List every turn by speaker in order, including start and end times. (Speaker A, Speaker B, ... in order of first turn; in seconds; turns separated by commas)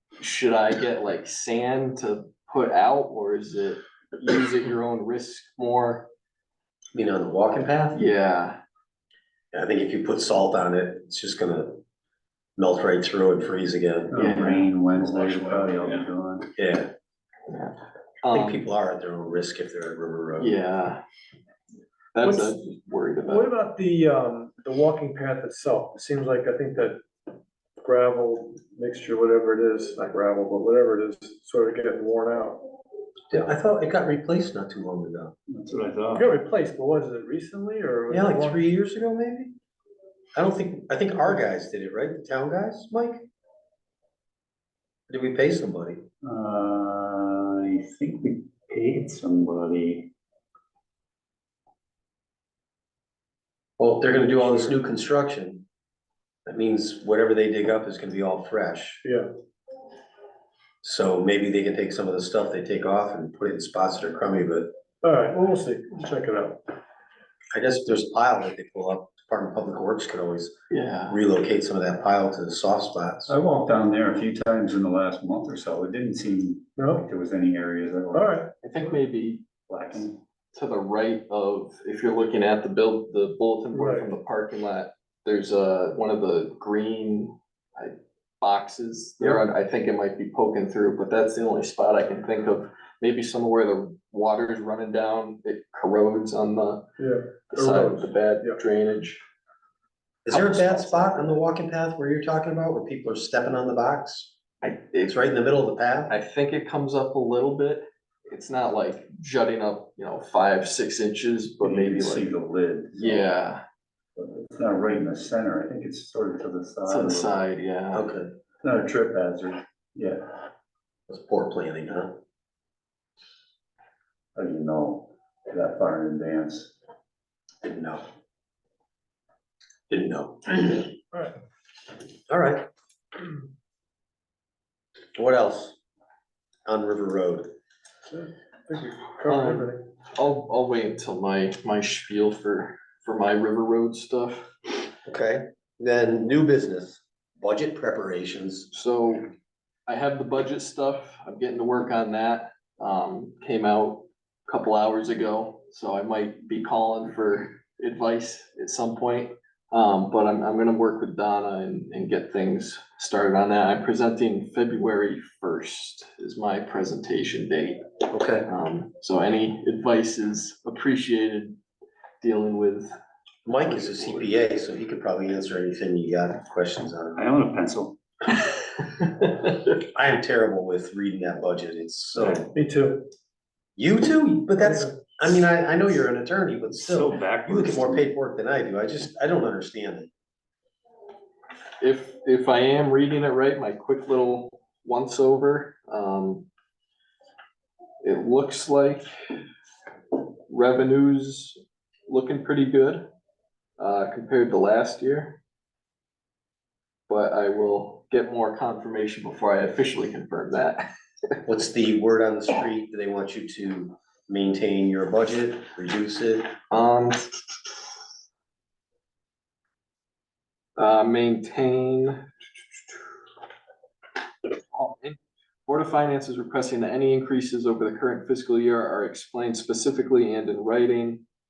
Speaker A: 0.2-6.0, Speaker B: 6.9-8.0, Speaker A: 7.9-8.6, Speaker B: 9.5-11.8, Speaker B: 12.6-14.6, Speaker C: 14.1-16.5, Speaker A: 14.1-14.6, Speaker B: 16.6-16.9, Speaker A: 17.5-18.6, Speaker B: 18.3-20.6, Speaker A: 20.4-21.0, Speaker A: 22.1-23.5, Speaker D: 22.2-22.6, Speaker D: 23.2-27.0, Speaker D: 27.8-32.6, Speaker B: 33.3-35.3, Speaker C: 35.5-36.3, Speaker D: 36.1-38.6, Speaker B: 38.1-39.5, Speaker B: 40.3-43.2, Speaker B: 45.1-46.0, Speaker C: 46.2-50.1, Speaker B: 53.8-55.6, Speaker B: 56.5-59.0, Speaker B: 60.8-64.7, Speaker D: 65.0-66.6, Speaker B: 67.5-70.5, Speaker A: 70.7-71.2, Speaker B: 71.1-73.3, Speaker C: 73.3-78.4, Speaker D: 76.8-77.0, Speaker D: 78.1-78.5, Speaker A: 78.6-79.4, Speaker C: 79.7-80.2, Speaker A: 80.5-96.8, Speaker D: 83.7-84.1, Speaker D: 97.0-98.6, Speaker A: 97.5-99.2, Speaker B: 100.2-104.3, Speaker A: 100.3-101.4, Speaker A: 104.6-105.2, Speaker B: 105.0-106.1, Speaker A: 106.1-112.2, Speaker C: 111.6-113.3, Speaker A: 112.9-113.6, Speaker C: 114.2-117.3, Speaker A: 116.9-118.1, Speaker B: 117.9-118.3, Speaker C: 118.6-120.3, Speaker B: 121.1-122.2, Speaker C: 124.3-126.7, Speaker B: 127.6-128.0, Speaker B: 129.9-131.0, Speaker B: 132.3-132.7, Speaker B: 135.1-135.8, Speaker B: 136.7-137.5, Speaker D: 138.1-139.8, Speaker A: 139.3-144.5, Speaker B: 145.1-148.7, Speaker A: 148.7-149.3, Speaker A: 149.9-167.8, Speaker B: 168.1-168.5, Speaker A: 168.5-171.6, Speaker A: 172.2-172.9, Speaker B: 173.4-177.2, Speaker A: 173.6-174.3, Speaker C: 177.1-178.0, Speaker B: 179.7-182.5, Speaker C: 182.2-182.4, Speaker D: 182.5-183.1, Speaker B: 183.8-190.1, Speaker C: 186.7-188.1, Speaker A: 191.8-196.5, Speaker A: 198.0-199.0, Speaker A: 200.5-203.0, Speaker A: 203.8-205.4, Speaker A: 207.1-210.8, Speaker B: 211.4-216.5, Speaker A: 216.7-217.3, Speaker A: 220.8-222.2, Speaker A: 224.7-231.2